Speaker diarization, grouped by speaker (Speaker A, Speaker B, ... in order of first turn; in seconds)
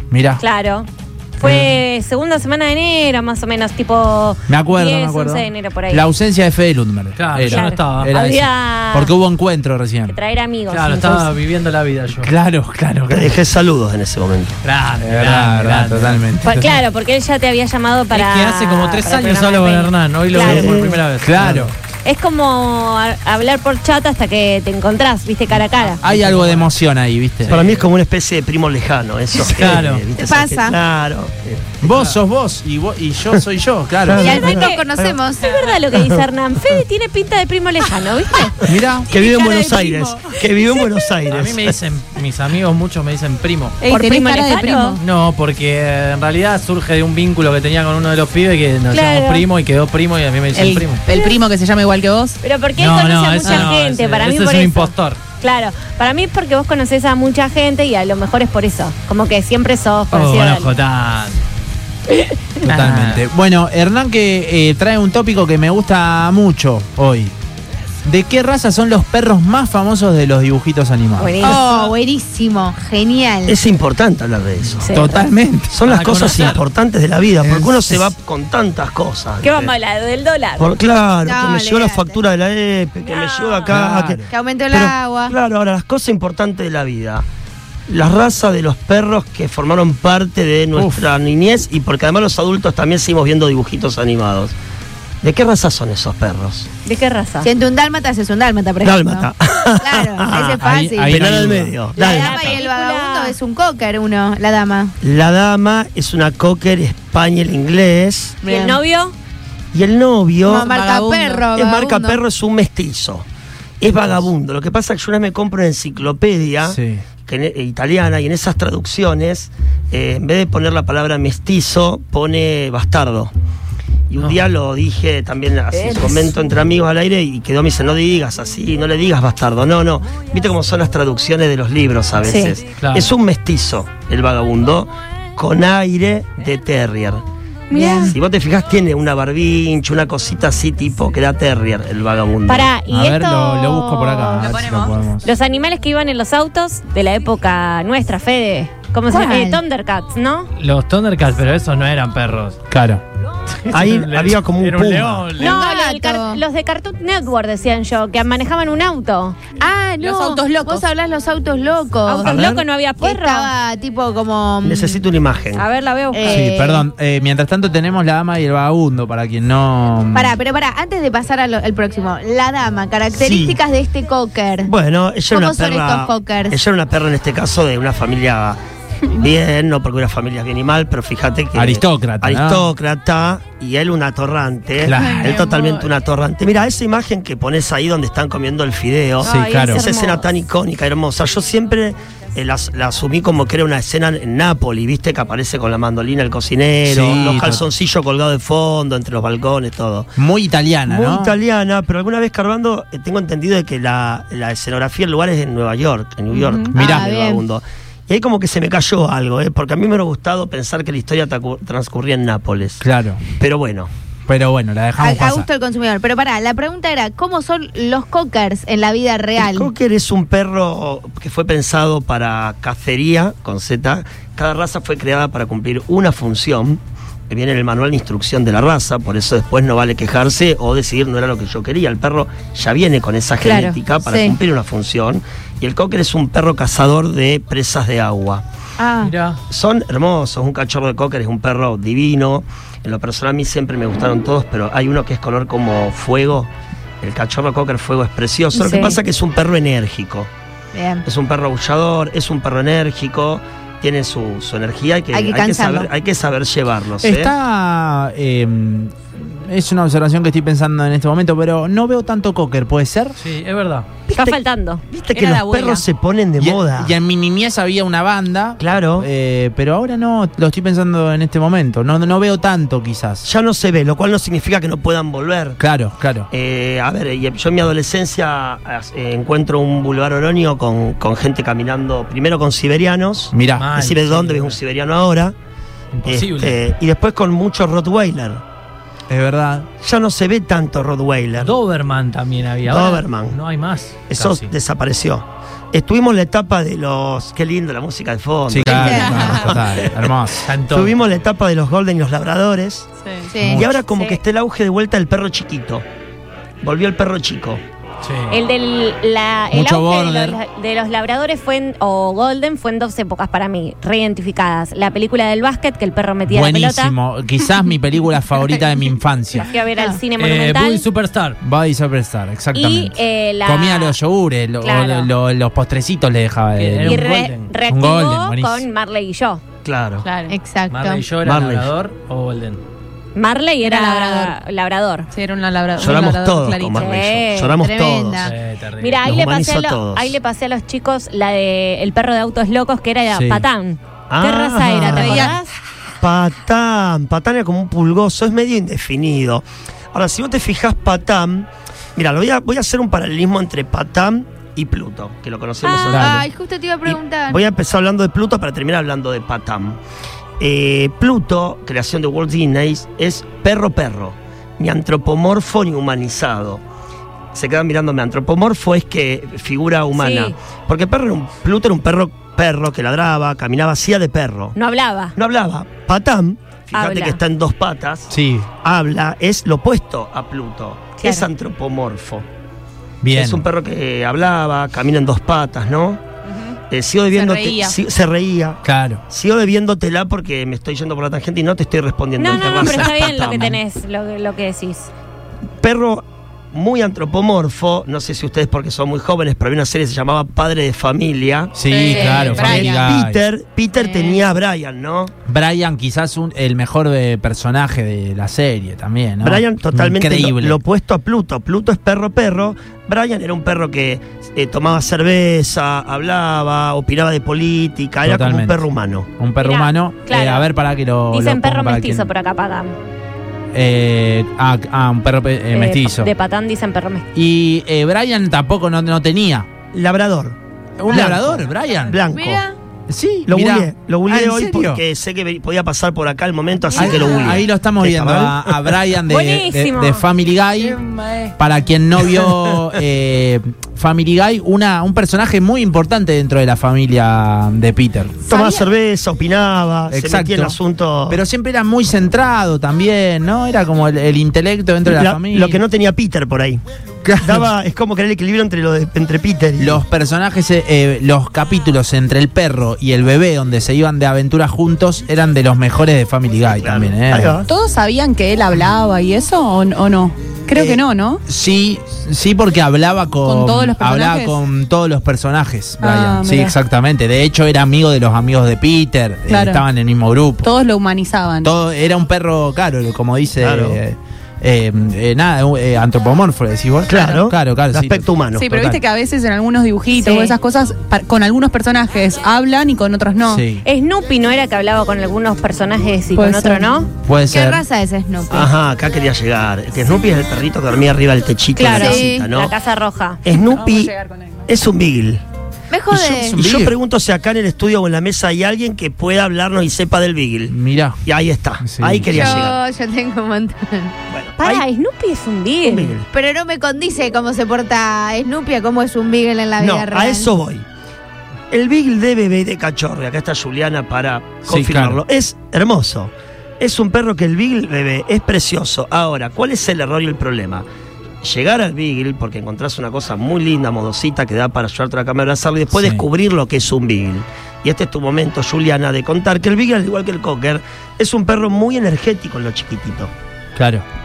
Speaker A: 0.1-0.4, 1.4-1.7, 4.5-10.2, 12.2-13.3, 15.0-16.8, 21.2-21.7, 26.0-27.6, 31.8-34.4, 38.7-39.1, 62.6-67.3, 68.0-71.4, 74.9-75.7, 77.4-78.1, 83.7-84.3, 90.7-91.0, 100.6-101.8, 116.7-117.0, 142.9-145.3, 152.7-153.0, 166.3-170.3, 181.5-182.7, 184.8-185.4, 189.2-189.8, 196.8-197.6, 200.2-201.3, 206.8-207.1, 212.8-213.2, 214.3-215.5, 257.0-263.1, 266.4-273.2, 275.6-276.3, 283.3-283.7, 289.1-289.7, 298.5-300.5, 309.5-310.4, 316.3-319.5, 321.4-327.1, 327.7-328.6, 343.1-343.4, 355.9-356.2, 378.1-378.5, 383.0-383.4, 388.6-389.0, 401.5-403.2, 405.3-410.6, 418.0-418.7, 419.2-422.1, 423.5-426.1, 427.1-429.5, 430.8-432.0, 432.9-434.8, 436.8-440.8, 441.4-448.2, 449.9-450.6, 451.1-455.6, 457.0-457.4, 459.6-467.4, 471.3-480.5, 481.4-488.8, 493.3-493.6, 497.0-497.6, 505.9-506.7, 510.5-511.0, 511.6-512.4, 524.4-525.0, 535.7-536.0, 543.5-543.8
Speaker B: 0.4-0.9, 1.4-6.0, 7.4-9.1, 10.1-11.3, 16.4-20.8, 22.0-26.0, 34.2-34.9, 35.4-38.7, 43.9-45.0, 48.9-49.5, 52.4-60.7, 62.1-62.4, 71.2-71.7, 74.8-75.2, 79.4-80.8, 83.0-83.7, 96.8-97.5, 102.0-103.4, 108.4-109.1, 125.7-126.3, 132.2-132.6, 137.7-138.1, 142.5-144.6, 145.2-150.5, 155.4-159.4, 162.1-163.5, 165.5-166.5, 189.2-190.3, 233.5-233.8, 248.6-249.0, 264.1-264.8, 303.9-304.2, 308.3-316.9, 319.4-320.9, 322.5-324.0, 324.6-325.1, 326.8-329.4, 333.1-335.1, 336.7-337.6, 338.8-345.5, 355.6-356.0, 369.9-370.3, 374.6-375.1, 376.7-377.2, 381.0-381.3, 392.2-394.9, 419.4-420.5, 421.1-422.7, 425.5-427.1, 439.1-440.0, 493.6-496.9, 501.6-503.2, 514.4-515.9
Speaker C: 7.2-8.1, 10.7-12.3, 14.6-16.3, 18.1-21.7, 25.8-26.7, 27.4-27.9, 29.5-30.0, 41.3-43.8, 45.0-51.0, 52.8-55.2, 60.1-61.4, 62.6-63.2, 75.8-76.6, 132.7-133.1, 150.6-152.6, 153.6-155.7, 239.0-239.4, 263.2-263.9, 283.6-284.6, 285.9-286.6, 291.4-294.5, 300.4-301.0, 308.0-308.4, 320.2-321.4, 326.6-327.5, 330.7-332.6, 338.2-339.1
Speaker D: 13.1-14.6, 20.4-21.0, 27.5-31.8, 34.0-35.2, 35.9-36.2, 39.1-41.8, 73.4-74.9, 75.7-79.7, 80.6-87.2, 87.9-94.5, 95.2-96.7, 98.8-102.6, 105.0-108.4, 109.7-110.7, 111.5-113.2, 113.8-123.3, 124.1-137.2, 137.8-142.7, 153.7-155.3, 162.2-162.7, 164.6-165.7, 173.1-173.6, 174.6-178.6, 179.1-200.1, 200.8-213.9, 219.4-238.4, 239.5-246.5, 247.0-250.3, 251.0-257.3, 264.1-266.9, 268.6-269.1, 273.2-275.6, 276.3-285.3, 286.0-288.4, 289.8-291.5, 292.6-293.4, 294.1-300.1, 300.7-302.9, 303.4-305.8, 306.6-307.6, 329.6-330.1, 331.2-331.7, 335.8-338.3, 339.0-340.1, 344.1-345.4, 346.0-356.2, 356.8-359.8, 360.4-366.6, 367.3-374.5, 375.1-382.2, 383.1-386.0, 386.7-393.6, 395.6-401.6, 402.1-405.1, 409.2-419.1, 429.7-432.4, 433.3-438.8, 442.1-442.5, 448.3-451.2, 454.9-456.6, 457.2-459.8, 466.4-467.5, 483.4-483.8, 486.9-488.5, 498.3-502.5, 503.2-503.9, 504.4-505.2, 506.3-512.6, 514.1-514.6, 515.6-516.0, 519.6-520.6, 521.5-530.6, 531.2-543.1
Speaker E: 30.2-30.8, 34.1-35.9, 71.4-73.6, 81.2-82.2, 84.3-85.3, 97.4-105.0, 108.4-108.8, 110.4-112.2, 137.7-138.1, 149.1-149.6, 155.4-156.4, 159.5-162.3, 163.0-165.0, 166.1-166.8, 170.1-174.7, 175.3-176.6, 206.7-207.4, 215.0-219.7, 233.5-234.3, 238.8-239.1, 248.6-248.9, 250.7-251.0, 255.1-255.9, 298.6-299.3, 303.3-303.6, 330.3-331.0, 337.6-338.3, 355.9-357.4, 401.9-402.8, 403.8-404.2, 432.1-432.5, 448.3-448.6, 490.0-490.3, 497.3-498.5, 501.6-502.3, 505.7-506.4, 512.1-513.9, 516.1-520.3
Speaker F: 39.2-40.2, 43.8-45.0, 50.5-52.4, 71.5-71.9, 110.7-111.5, 160.0-160.9, 184.9-185.9, 206.3-206.7, 265.1-265.8, 298.8-299.5, 303.0-303.3, 330.0-330.3, 333.6-334.4, 335.1-336.9, 344.9-345.4, 386.3-386.5, 387.1-387.7, 401.6-402.8, 440.6-441.3, 467.5-471.2, 473.2-474.4, 475.8-476.6, 479.3-479.6, 480.4-481.5, 488.3-493.4, 496.1-496.6, 503.3-504.5